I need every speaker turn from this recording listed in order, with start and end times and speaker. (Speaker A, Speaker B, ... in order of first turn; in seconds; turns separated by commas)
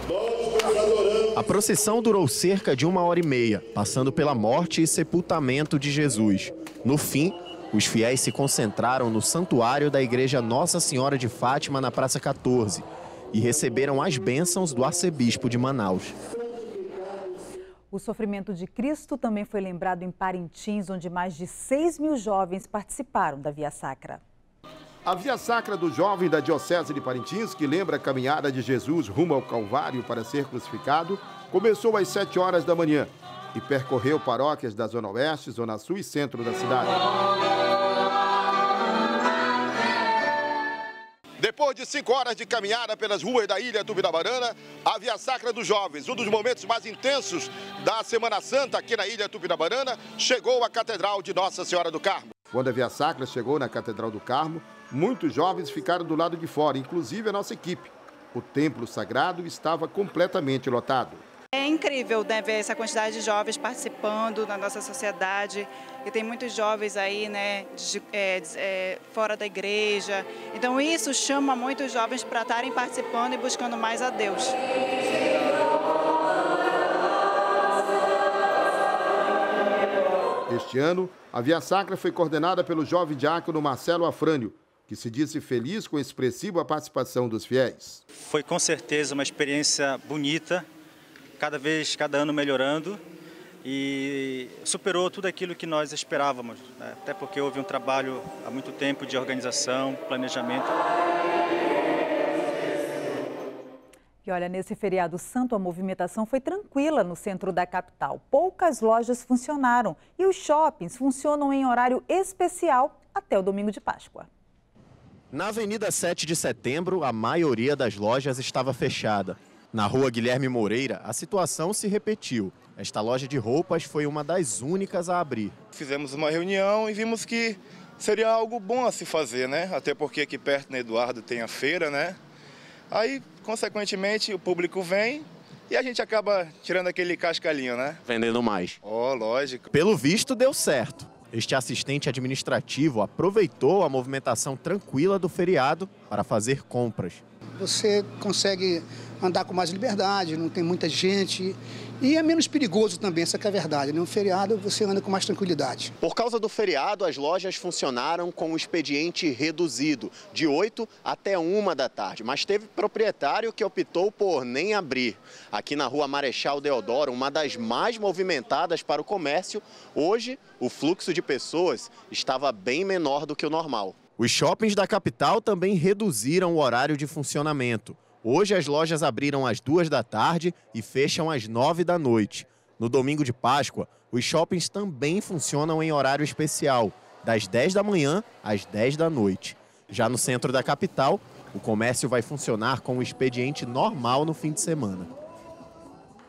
Speaker A: 1.4-16.2, Speaker B: 17.9-24.2, Speaker C: 25.1-37.0, Speaker C: 41.4-61.2, Speaker D: 61.5-74.6, Speaker C: 80.5-88.0, Speaker E: 88.2-90.7, Speaker E: 91.4-93.0, Speaker E: 93.6-100.7, Speaker B: 104.2-114.3, Speaker A: 115.3-125.5, Speaker F: 125.7-132.2, Speaker F: 132.9-138.0, Speaker A: 138.1-138.8, Speaker F: 138.8-139.7, Speaker A: 139.7-147.2, Speaker G: 147.6-155.9, Speaker A: 156.0-195.1